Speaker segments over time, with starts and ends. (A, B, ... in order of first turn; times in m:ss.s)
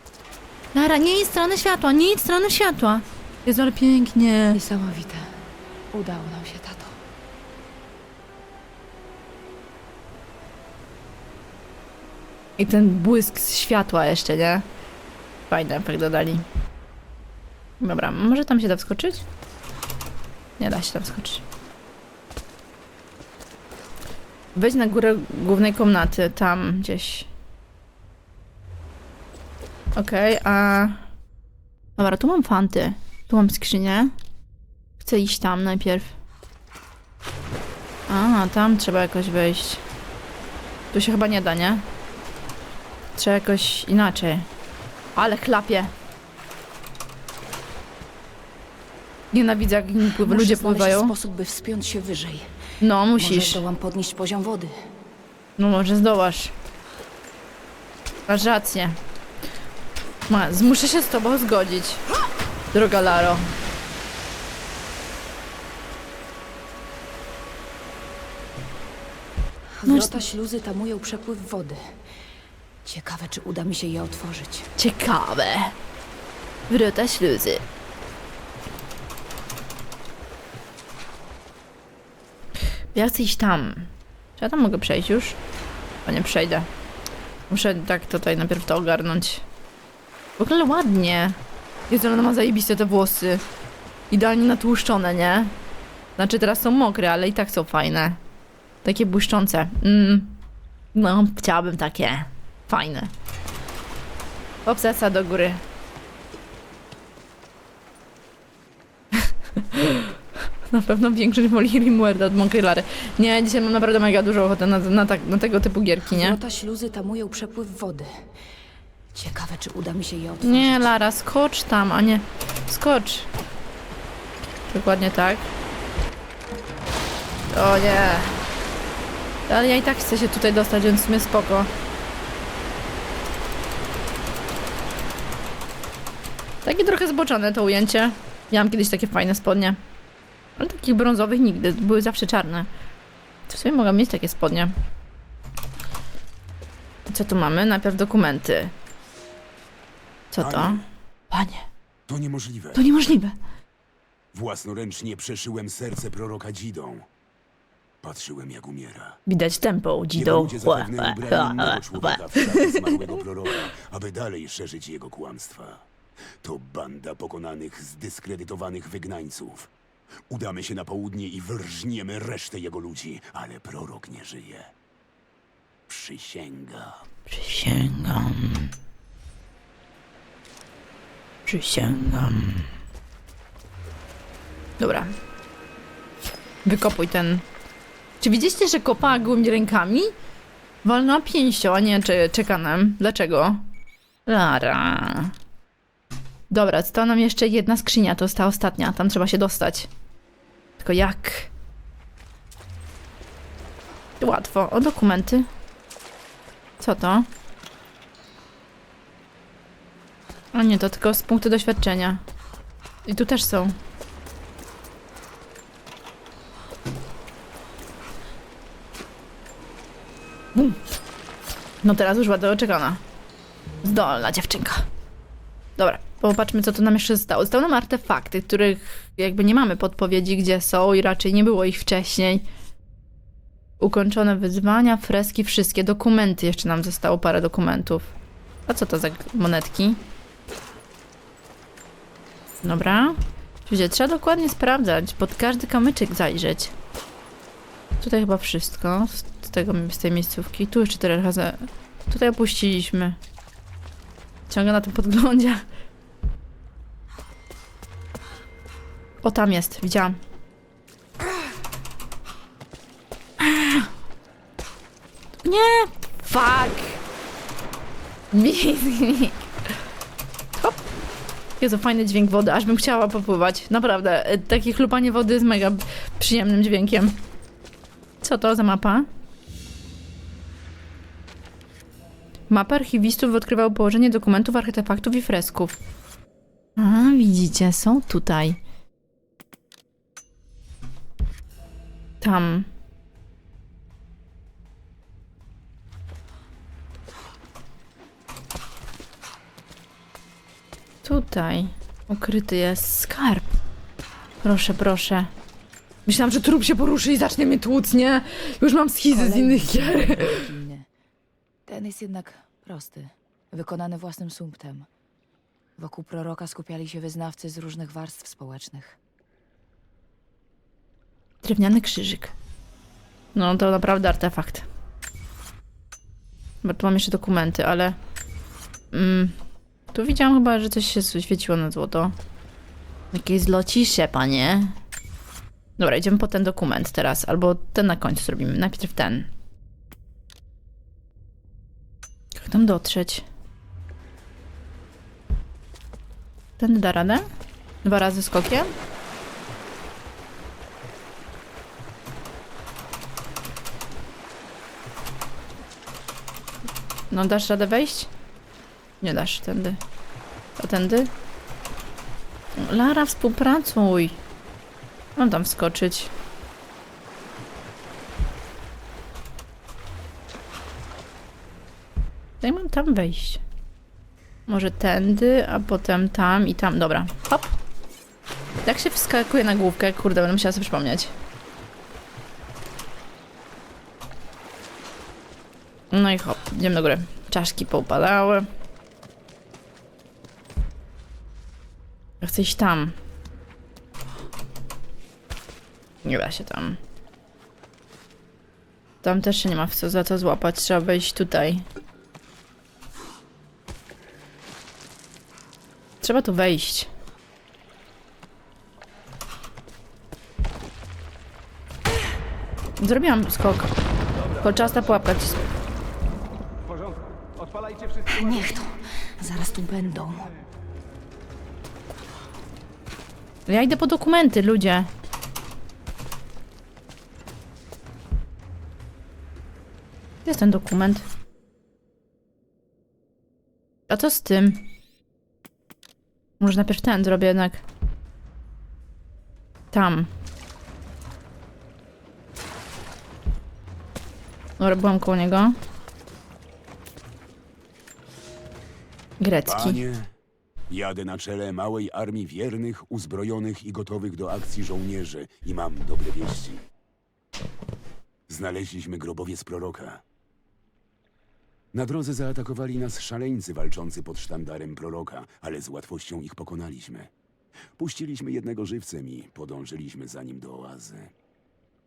0:00.7-0:04.6 A
0:04.5-0:05.4 B
0:05.9-0:07.0 B
0:12.6-0:14.6 A
0:15.5-0:16.4 A
0:17.8-0:19.2 A
0:20.6-0:21.4 A
0:24.5-0:27.3 A
0:30.0-0:31.0 A
0:32.0-0:34.1 A
0:35.0-0:36.1 A
0:38.1-0:39.8 A
0:40.9-0:41.8 A
0:43.2-0:44.5 A
0:45.1-0:45.9 A
0:49.3-0:51.1 A
0:50.2-0:52.5 B
0:52.8-0:53.6 A
0:53.2-0:54.7 B
0:55.6-0:56.5 A
0:58.3-0:59.0 A
1:00.3-1:02.0 A
1:02.7-1:03.5 A
1:09.8-1:11.9 B
1:09.8-1:10.2 A
1:12.8-1:14.7 B
1:14.8-1:15.7 A
1:16.7-1:17.6 A
1:22.9-1:25.4 A
1:26.0-1:26.7 A
1:27.5-1:29.4 A
1:30.4-1:31.4 A
1:31.9-1:33.4 A
1:34.1-1:35.5 A
1:36.2-1:38.2 A
1:38.8-1:40.4 A
1:40.9-1:43.1 A
1:44.6-1:45.6 A
1:49.1-1:50.2 A
1:50.7-1:56.4 A
1:56.0-1:58.2 B
1:59.1-2:01.0 B
2:00.4-2:03.3 A
2:04.7-2:05.4 A
2:07.5-2:08.4 A
2:09.5-2:11.7 A
2:16.6-2:19.8 A
2:20.6-2:22.7 A
2:23.5-2:24.7 A
2:27.1-2:28.7 A
2:30.3-2:31.6 A
2:30.4-2:30.8 C
2:32.1-2:32.8 C
2:32.7-2:33.4 A
2:34.3-2:37.0 C
2:38.0-2:39.2 C
2:39.3-2:43.2 A
2:40.1-2:45.8 C
2:46.4-2:49.7 C
2:50.3-2:54.7 C
2:55.9-2:57.0 C
2:57.3-2:58.7 A
3:01.4-3:02.7 A
3:04.8-3:05.1 A
3:06.6-3:07.4 A
3:08.2-3:10.1 A
3:10.8-3:13.6 A
3:14.2-3:15.3 A
3:16.5-3:19.9 A
3:20.8-3:21.5 A
3:24.2-3:25.5 A
3:26.8-3:27.3 A
3:30.5-3:32.2 A
3:33.0-3:33.7 A
3:41.8-3:43.0 A
3:43.8-3:44.9 A
3:45.8-3:52.5 A
3:53.8-3:58.1 A
3:58.7-4:00.0 A
4:02.6-4:06.7 A
4:08.0-4:13.2 A
4:14.5-4:15.6 A
4:19.2-4:20.2 A
4:23.4-4:23.9 A
4:25.4-4:27.0 A
4:28.3-4:29.4 A
4:30.6-4:30.8 A
4:31.6-4:37.2 A
4:38.2-4:39.1 A
4:42.5-4:45.8 A
4:46.8-4:48.6 A
4:52.2-4:52.7 A
5:01.0-5:03.5 A
5:04.4-5:05.3 A
5:06.0-5:10.4 A
5:09.1-5:10.9 B
5:11.7-5:14.9 B
5:15.8-5:19.0 B
5:21.4-5:22.3 A
5:23.3-5:24.7 A
5:26.6-5:28.0 A
5:28.9-5:29.3 A
5:29.9-5:32.1 A
5:33.1-5:34.8 A
5:35.8-5:39.3 A
5:42.4-5:43.2 A
5:46.6-5:47.2 A
5:47.8-5:48.7 A
5:57.1-5:58.1 A
5:59.0-5:59.8 A
6:00.6-6:01.1 A
6:02.5-6:04.2 A
6:05.2-6:06.1 A
6:12.4-6:13.4 A
6:14.5-6:17.5 A
6:18.6-6:21.1 A
6:25.9-6:28.5 A
6:32.2-6:32.9 A
6:36.0-6:36.8 A
6:39.0-6:41.6 A
6:46.0-6:46.9 A
6:52.8-6:53.7 A
6:54.4-6:55.4 A
6:58.1-7:00.3 B
7:03.5-7:04.9 A
7:10.2-7:11.0 A
7:13.9-7:14.6 A
7:16.4-7:17.6 A
7:19.7-7:20.1 A
7:24.6-7:25.6 A
7:29.2-7:29.8 A
7:29.4-7:30.1 C
7:30.7-7:36.6 C
7:38.3-7:40.0 C
7:41.7-7:47.1 C
7:47.8-7:51.1 C